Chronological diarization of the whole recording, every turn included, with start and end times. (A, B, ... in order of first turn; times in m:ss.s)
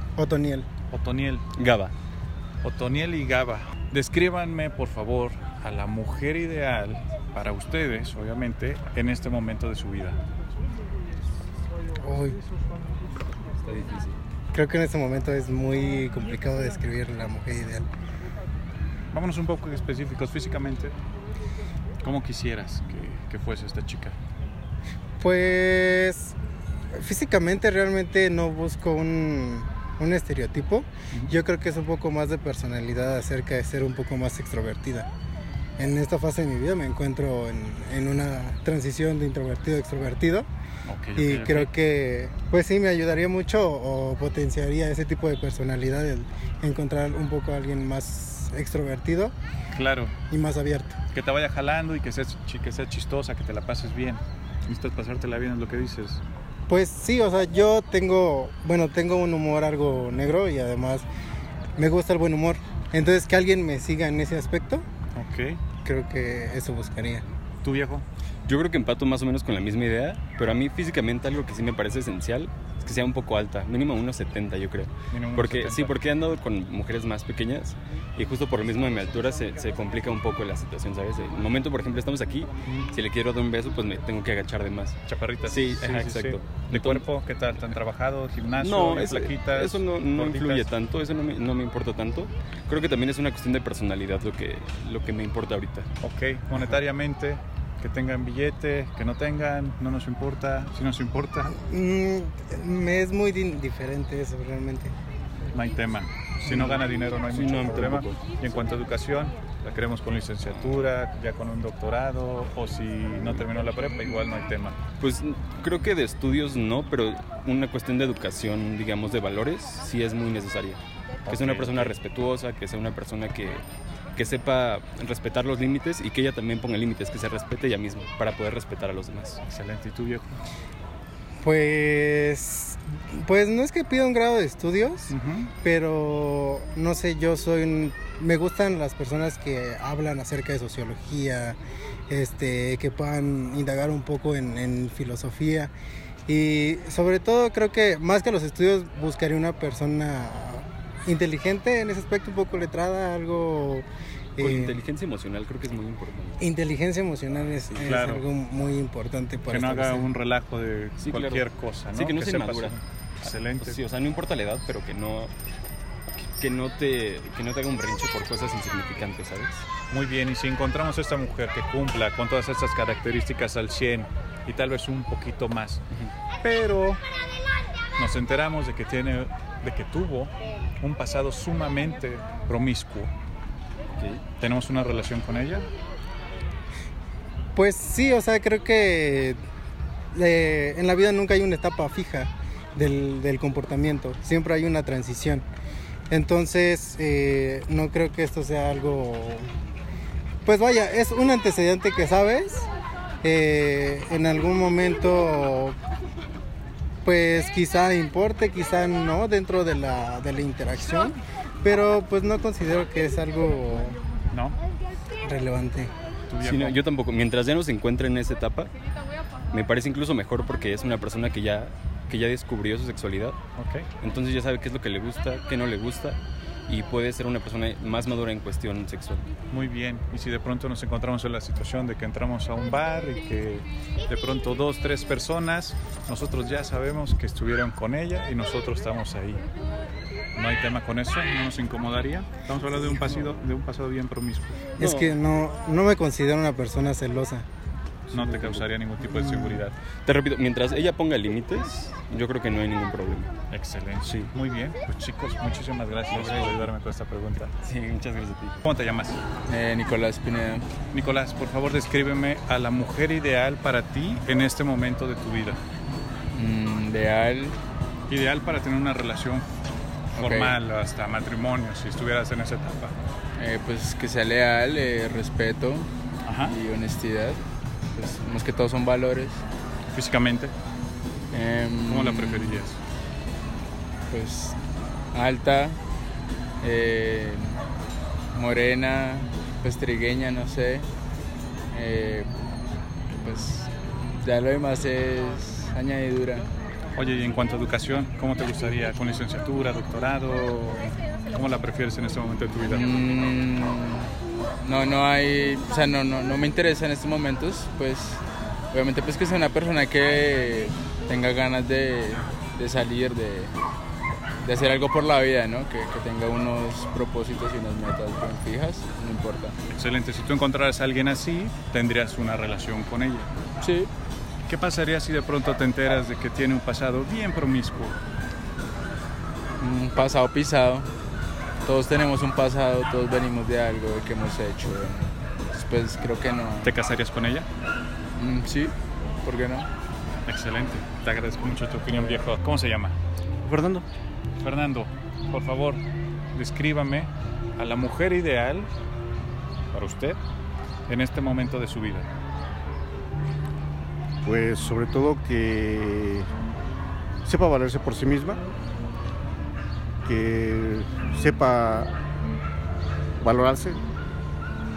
0:00.2-0:00.7 A
0:00.9-0:01.4 B
0:01.6-0:01.9 C
0:02.6-0:10.2 B
0:12.0-0:12.4 A
0:13.6-0:14.1 C
0:14.5-0:17.8 A
0:19.1-0:20.9 B
0:22.0-0:24.1 B
0:25.2-0:26.3 A
0:26.9-0:35.1 A
0:35.8-0:40.4 A
0:40.8-0:41.7 B
0:41.2-0:49.3 A
0:49.7-0:50.1 B
0:50.3-0:51.0 A
0:51.1-0:56.2 B
0:56.7-1:01.0 A
1:01.8-1:04.8 A
1:05.1-1:05.6 B
1:05.8-1:07.2 A
1:07.6-1:08.0 B
1:08.5-1:27.0 C
1:15.1-1:16.0 B
1:25.0-1:30.7 B
1:28.6-1:35.9 C
1:36.0-1:41.5 B
1:41.5-1:44.9 A
1:45.5-1:54.8 B
1:46.5-1:48.2 C
1:55.0-2:03.6 C
2:01.2-2:02.0 B
2:04.1-2:09.4 C
2:09.4-2:10.4 B
2:11.4-2:21.6 A
2:15.1-2:15.5 B
2:22.1-2:25.7 A
2:26.3-2:33.8 A
2:34.4-2:34.8 A
2:34.4-2:36.4 C
2:36.4-2:40.1 A
2:37.8-2:38.2 B
2:39.5-2:43.8 B
2:41.0-2:42.8 C
2:43.6-2:45.3 C
2:46.1-2:49.6 C
2:49.9-2:55.8 B
2:56.4-2:57.0 B
2:58.0-3:03.1 B
3:03.9-3:04.2 C
3:04.4-3:05.7 B
3:07.5-3:09.4 A
3:10.1-3:15.4 A
3:16.1-3:19.5 A
3:20.4-3:22.7 A
3:23.2-3:25.8 A
3:27.0-3:34.0 A
3:34.3-3:34.6 B
3:35.2-3:35.9 A
3:36.3-3:36.8 B
3:36.4-3:38.7 C
3:39.5-3:43.4 C
3:43.6-3:43.9 B
3:44.0-3:49.3 C
3:49.5-3:59.4 B
4:00.4-4:04.6 B
4:04.8-4:07.4 A
4:04.8-4:05.1 C
4:08.1-4:09.8 B
4:08.1-4:08.6 C
4:10.0-4:13.3 C
4:13.5-4:17.5 B
4:16.1-4:16.7 C
4:17.6-4:18.6 C
4:18.6-4:19.2 B
4:19.5-4:20.7 D
4:20.9-4:25.6 B
4:26.3-4:27.6 D
4:28.1-4:32.9 B
4:30.1-4:30.5 D
4:33.4-4:35.9 D
4:36.2-4:36.5 B
4:36.4-4:37.4 D
4:37.9-4:39.4 D
4:39.9-4:40.5 B
4:41.3-4:42.3 D
4:41.9-4:42.8 B
4:44.1-4:44.6 D
4:45.1-4:45.8 D
4:46.6-4:47.6 D
4:48.3-4:50.9 D
4:51.7-4:52.3 D
4:53.1-4:56.5 D
4:56.9-5:02.9 B
5:02.7-5:13.5 D
5:14.4-5:19.6 D
5:19.7-5:23.3 B
5:23.6-5:23.9 D
5:24.5-5:28.0 B
5:29.6-5:30.9 D
5:31.6-5:36.7 D
5:36.6-5:37.5 B
5:38.2-5:39.7 D
5:40.2-5:43.0 B
5:43.4-5:43.8 E
5:44.4-5:45.8 B
5:46.3-5:48.7 B
5:49.7-5:50.2 B
5:50.9-5:52.1 B
5:54.2-5:56.3 E
5:57.2-5:58.4 E
6:00.0-6:01.9 E
6:03.2-6:03.8 E